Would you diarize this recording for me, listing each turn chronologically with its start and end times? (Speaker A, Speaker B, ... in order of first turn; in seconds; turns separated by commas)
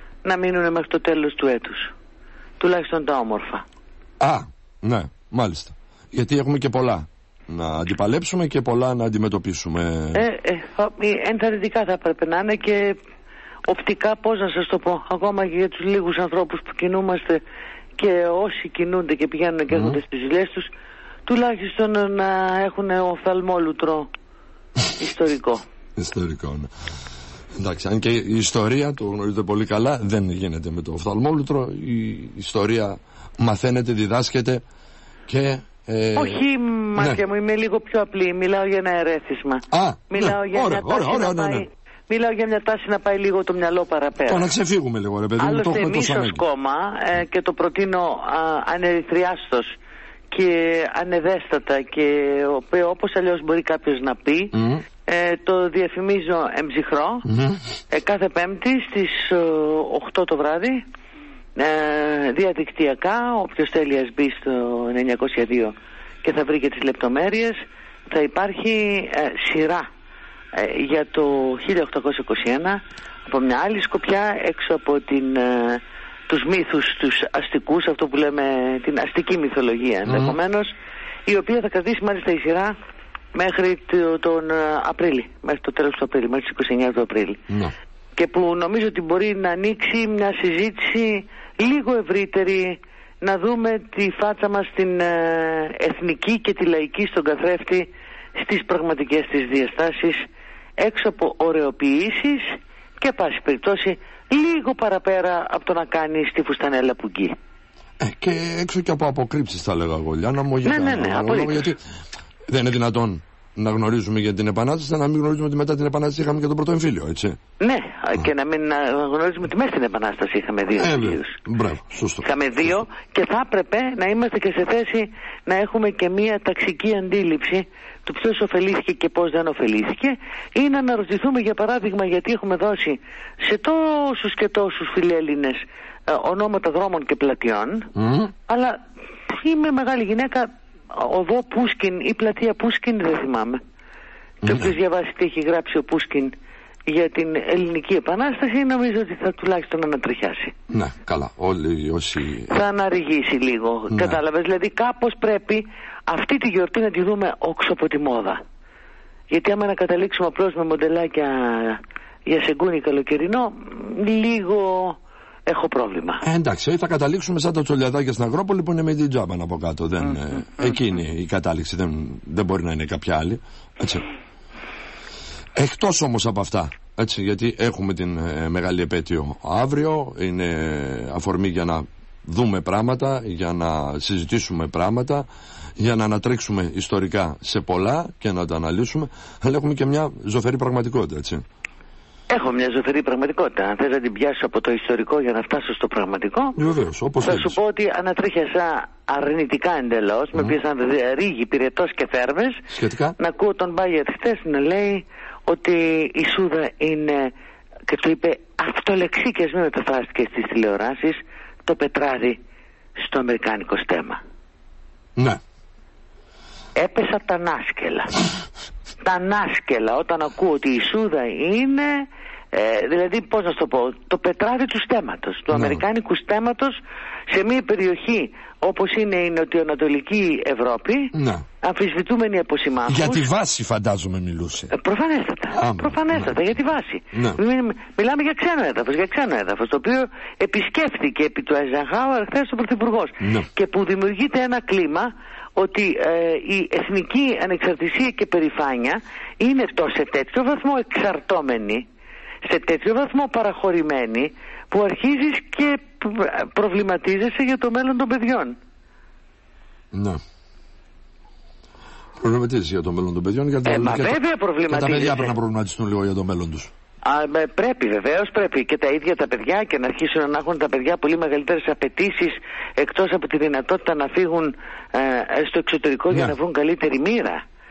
Speaker A: 0.2-1.9, Speaker A: 2.6-3.6, Speaker B: 4.2-10.2, Speaker A: 10.1-13.0, Speaker A: 13.7-17.4, Speaker A: 17.9-20.7, Speaker A: 21.2-24.1, Speaker A: 25.0-25.6, Speaker B: 25.9-26.7, Speaker B: 27.5-34.6, Speaker B: 35.3-36.4, Speaker A: 36.1-44.5, Speaker B: 39.7-41.6, Speaker B: 44.3-46.4, Speaker A: 45.4-49.7, Speaker A: 50.3-57.2, Speaker B: 54.5-54.8, Speaker B: 57.2-57.6, Speaker A: 57.9-60.8, Speaker A: 61.5-69.8, Speaker A: 70.5-80.7, Speaker B: 80.1-80.3, Speaker A: 81.2-82.7, Speaker A: 83.3-87.4, Speaker A: 88.2-100.2, Speaker A: 100.8-107.3, Speaker B: 108.0-111.8, Speaker A: 110.6-111.7, Speaker B: 112.5-117.4, Speaker A: 117.6-121.4, Speaker B: 120.8-122.8, Speaker A: 122.2-137.9, Speaker B: 137.9-138.3, Speaker A: 138.5-143.6, Speaker A: 144.4-146.3, Speaker B: 144.4-144.7, Speaker A: 146.9-150.5, Speaker B: 150.7-152.5, Speaker A: 152.5-158.4, Speaker B: 153.9-154.2, Speaker A: 159.3-166.2, Speaker B: 166.2-174.0, Speaker B: 175.6-185.2, Speaker B: 185.8-191.4, Speaker A: 192.3-196.6, Speaker B: 196.6-197.6, Speaker A: 197.2-202.7, Speaker B: 202.7-203.1, Speaker A: 203.2-207.3, Speaker A: 207.9-212.4, Speaker A: 213.0-214.2, Speaker A: 216.8-218.2, Speaker A: 219.0-233.3, Speaker B: 225.5-225.8, Speaker B: 231.1-231.4, Speaker B: 232.9-234.7, Speaker A: 234.7-251.8, Speaker B: 235.5-236.3, Speaker B: 237.1-237.4, Speaker B: 243.2-243.5, Speaker A: 252.4-258.6, Speaker B: 259.9-260.2, Speaker B: 262.2-264.2, Speaker A: 263.6-265.3, Speaker B: 264.7-266.7, Speaker A: 267.0-277.4